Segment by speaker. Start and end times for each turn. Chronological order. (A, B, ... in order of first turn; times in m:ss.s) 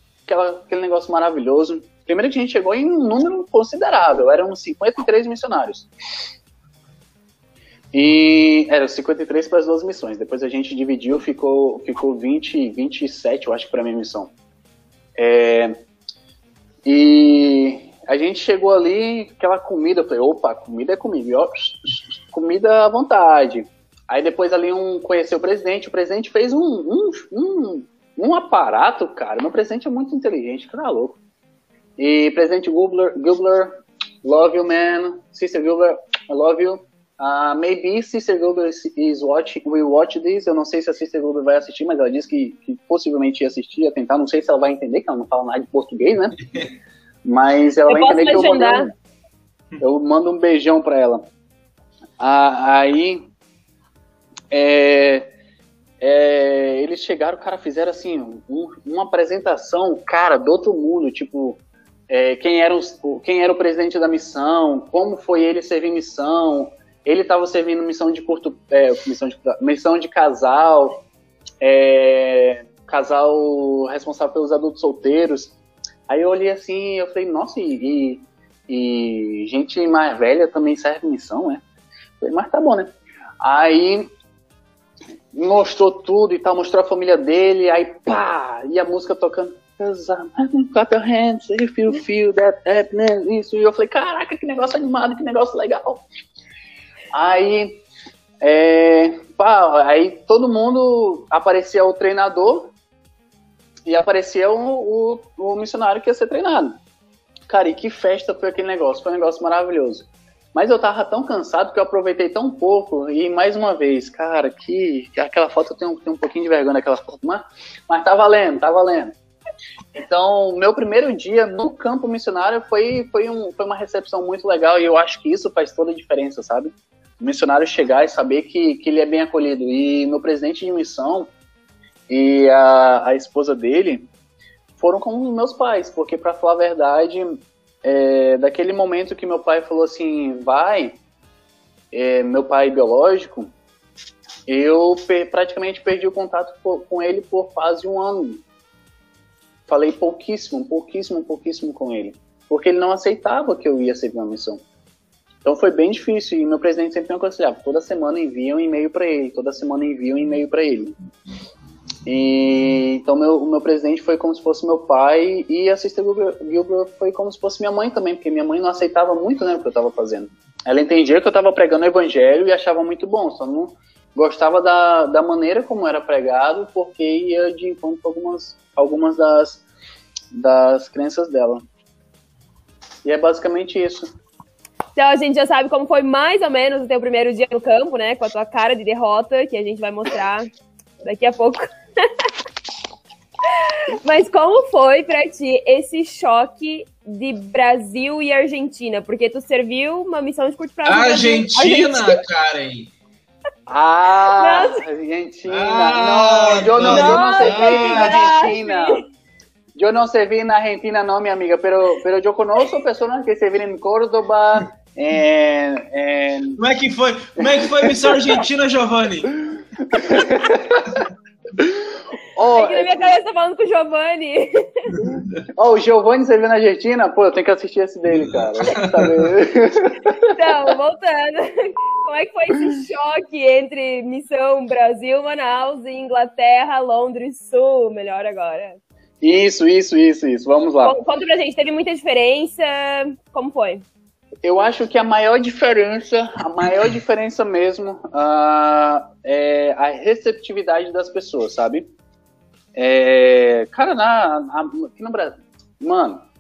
0:00.3-0:05.9 A
0:07.9-0:14.3 A
0:15.2-0:15.8 A
0:16.8-0:31.2 A
0:32.0-0:46.4 A
0:47.2-0:48.9 A
0:47.9-0:48.9 B
0:49.8-0:51.2 A
0:52.2-0:53.2 A
0:54.5-0:55.3 A
0:56.0-1:11.0 A
1:11.6-1:15.6 A
1:16.1-1:21.6 A
1:22.2-1:24.1 A
1:25.3-1:36.0 A
1:37.1-1:37.8 A
1:38.4-1:42.7 A
1:43.9-1:46.8 A
1:47.5-1:59.1 A
2:00.0-2:11.3 A
2:12.1-2:14.1 A
2:14.8-2:21.0 A
2:21.9-2:23.5 A
2:24.5-2:28.4 A
2:29.7-2:34.6 A
2:35.4-2:41.0 A
2:42.1-2:59.6 A
3:00.3-3:01.6 A
3:03.0-3:04.1 A
3:05.0-3:10.5 B
3:11.0-3:11.7 B
3:13.9-3:22.2 B
3:20.9-3:22.9 C
3:23.7-3:29.0 A
3:24.4-3:24.8 B
3:25.5-3:28.2 C
3:26.8-3:29.0 B
3:29.8-3:36.6 A
3:36.6-3:40.2 C
3:37.4-3:38.2 A
3:39.9-3:41.0 A
3:42.4-3:43.1 A
3:42.5-3:45.0 B
3:45.6-3:50.4 A
3:48.1-3:49.3 C
3:50.3-3:58.8 B
3:59.2-4:01.0 A
4:00.8-4:03.8 B
4:04.4-4:11.9 A
4:12.8-4:16.2 A